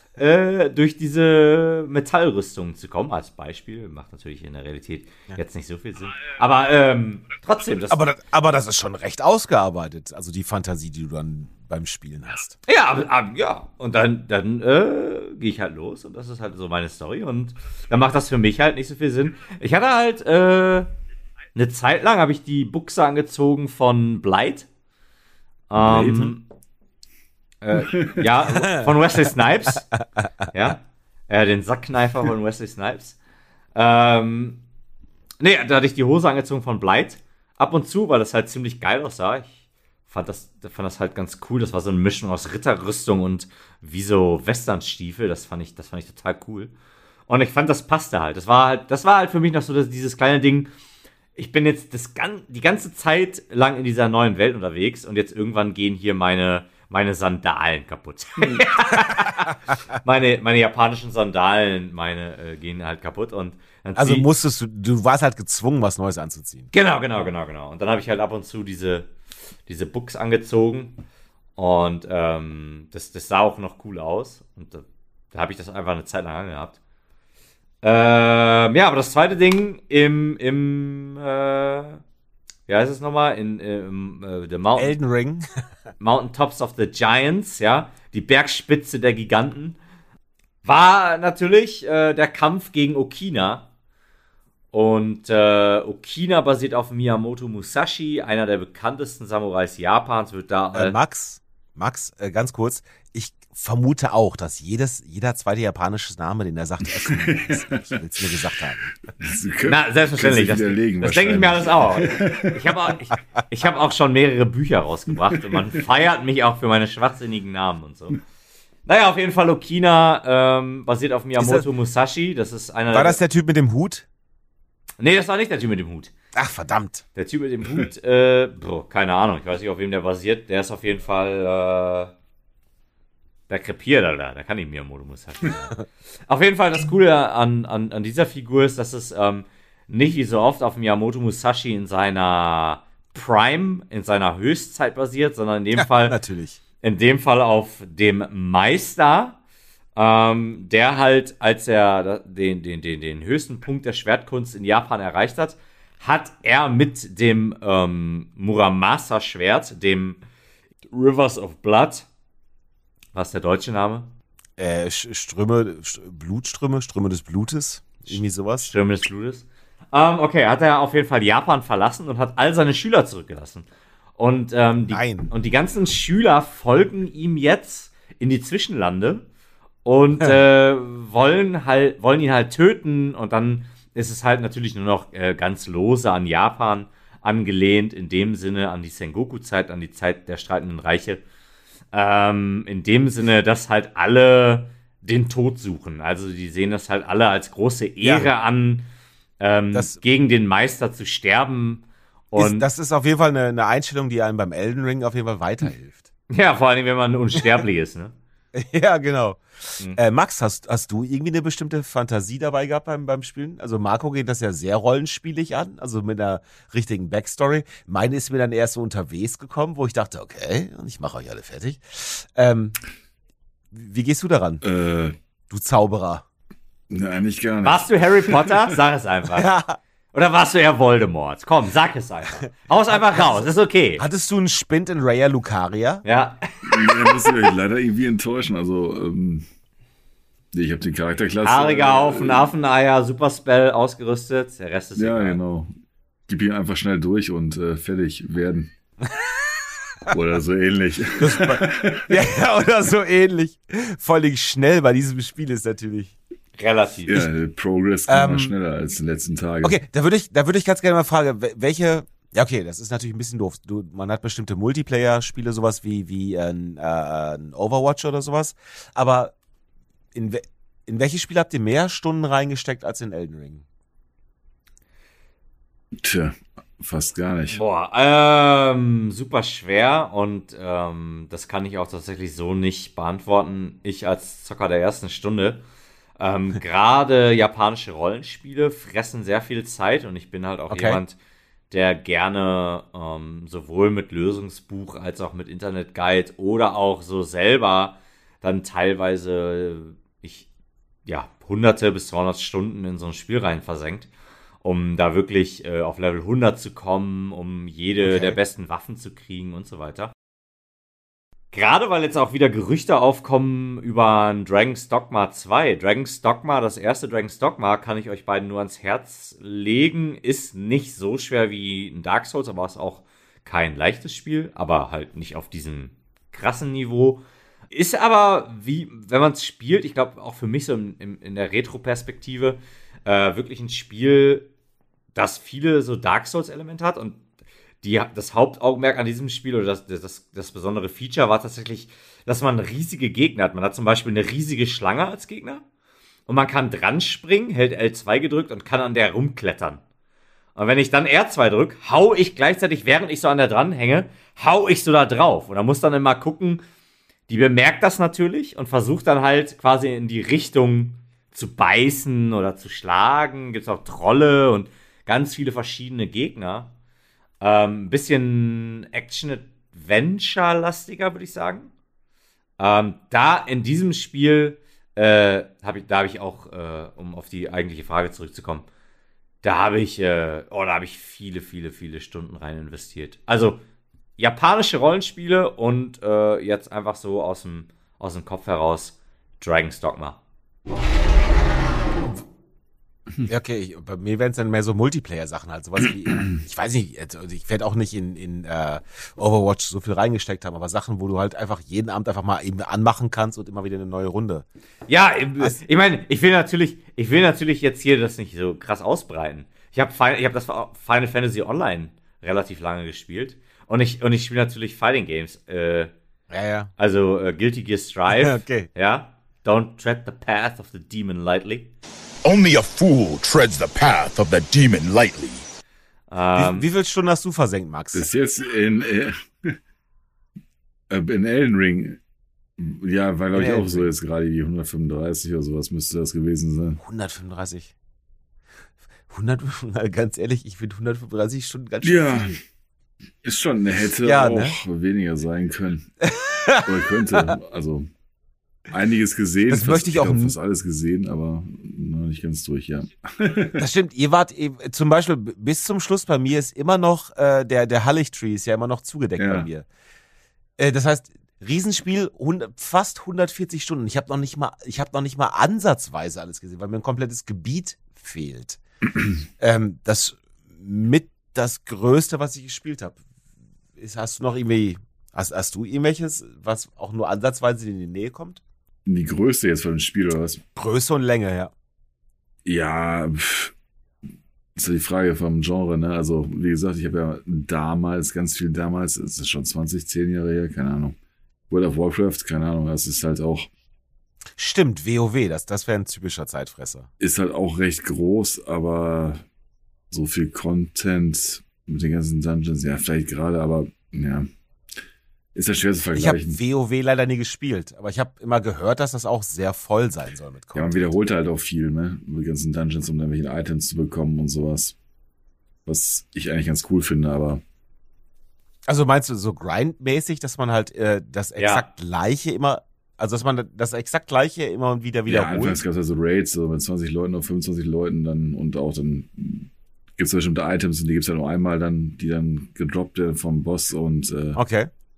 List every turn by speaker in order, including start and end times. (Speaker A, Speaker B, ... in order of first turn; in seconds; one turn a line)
Speaker A: 0.2-8.0
Speaker B: 7.9-12.6
Speaker A: 12.7-20.9
Speaker A: 21.6-24.7
Speaker A: 25.7-26.5
Speaker B: 25.8-26.3
Speaker A: 27.6-29.9
Speaker C: 27.9-28.2
Speaker B: 28.6-28.9
Speaker A: 30.5-33.2
Speaker A: 33.8-34.6
Speaker A: 35.4-39.6
Speaker A: 40.1-46.7
Speaker A: 47.3-50.7
Speaker A: 51.4-64.3
Speaker B: 64.0-66.7
Speaker A: 66.7-69.1
Speaker A: 69.7-71.0
Speaker A: 71.6-76.8
Speaker A: 77.8-82.0
Speaker A: 82.7-85.0
Speaker B: 84.8-85.5
Speaker A: 86.0-89.8
Speaker A: 90.6-93.7
Speaker A: 94.7-101.0
Speaker B: 100.7-108.8
Speaker C: 107.0-107.8
Speaker C: 109.2-112.8
Speaker A: 109.7-118.2
Speaker A: 118.9-123.2
Speaker B: 121.4-121.7
Speaker B: 122.9-124.1
Speaker A: 125.0-126.1
Speaker B: 126.3-127.0
Speaker A: 127.2-132.1
Speaker A: 133.5-135.8
Speaker A: 136.3-146.2
Speaker B: 145.8-146.6
Speaker A: 146.8-149.4
Speaker A: 150.0-160.2
Speaker A: 160.9-162.1
Speaker A: 163.1-164.1
Speaker B: 164.6-168.7
Speaker A: 168.6-173.7
Speaker A: 174.2-179.3
Speaker B: 174.9-175.3
Speaker A: 179.8-191.2
Speaker A: 191.9-198.9
Speaker B: 198.0-198.3
Speaker A: 199.4-202.7
Speaker B: 199.7-200.0
Speaker B: 202.4-206.1
Speaker A: 206.3-208.1
Speaker B: 208.5-222.8
Speaker B: 223.7-224.6
Speaker C: 224.6-225.2
Speaker B: 225.5-226.2
Speaker C: 226.9-228.6
Speaker A: 227.6-229.5
Speaker B: 229.4-229.8
Speaker A: 230.1-234.0
Speaker B: 232.9-233.4
Speaker B: 234.0-236.0
Speaker A: 236.1-237.2
Speaker C: 236.6-239.4
Speaker C: 240.5-242.5
Speaker A: 241.4-245.4
Speaker C: 245.0-245.7
Speaker C: 246.3-248.7
Speaker C: 250.1-252.2
Speaker B: 251.2-256.1
Speaker A: 256.6-257.1
Speaker C: 257.1-259.8
Speaker B: 258.1-258.6
Speaker B: 259.6-269.3
Speaker B: 270.1-273.6
Speaker C: 276.0-277.6
Speaker A: 277.5-285.6
Speaker A: 286.2-291.2
Speaker B: 290.7-291.0
Speaker A: 291.7-300.5
Speaker A: 301.1-304.1
Speaker A: 304.6-310.1
Speaker B: 308.0-308.4
Speaker A: 311.5-334.5
Speaker A: 335.1-337.2
Speaker A: 337.8-345.6
Speaker A: 346.3-349.8
Speaker A: 350.6-356.6
Speaker A: 357.3-366.7
Speaker A: 367.4-371.7
Speaker A: 372.6-378.7
Speaker A: 379.4-383.6
Speaker A: 384.2-390.2
Speaker B: 393.2-404.5
Speaker A: 404.9-415.9
Speaker B: 416.3-416.7
Speaker A: 416.8-421.7
Speaker B: 418.1-418.7
Speaker D: 422.2-425.5
Speaker A: 426.1-426.7
Speaker B: 426.4-428.1
Speaker C: 427.9-429.6
Speaker C: 430.9-432.0
Speaker C: 432.6-436.8
Speaker B: 433.3-433.9
Speaker B: 436.8-437.7
Speaker B: 439.1-442.4
Speaker C: 441.8-442.4
Speaker C: 443.2-447.9
Speaker B: 444.0-444.6
Speaker B: 446.2-446.7
Speaker C: 448.7-453.6
Speaker B: 449.5-450.4
Speaker B: 453.6-459.7
Speaker C: 459.2-459.5
Speaker B: 460.6-468.6
Speaker B: 469.4-473.0
Speaker B: 473.8-478.4
Speaker C: 478.9-480.4
Speaker B: 480.6-481.5
Speaker C: 482.5-483.5
Speaker C: 484.6-491.0
Speaker C: 491.5-493.5
Speaker B: 494.4-496.9
Speaker C: 497.0-499.2
Speaker C: 499.9-504.3
Speaker C: 505.4-506.4
Speaker B: 505.9-511.0
Speaker C: 510.5-514.8
Speaker C: 515.7-517.4
Speaker B: 518.7-525.6
Speaker A: 521.4-521.7
Speaker C: 525.1-534.4
Speaker B: 534.4-534.7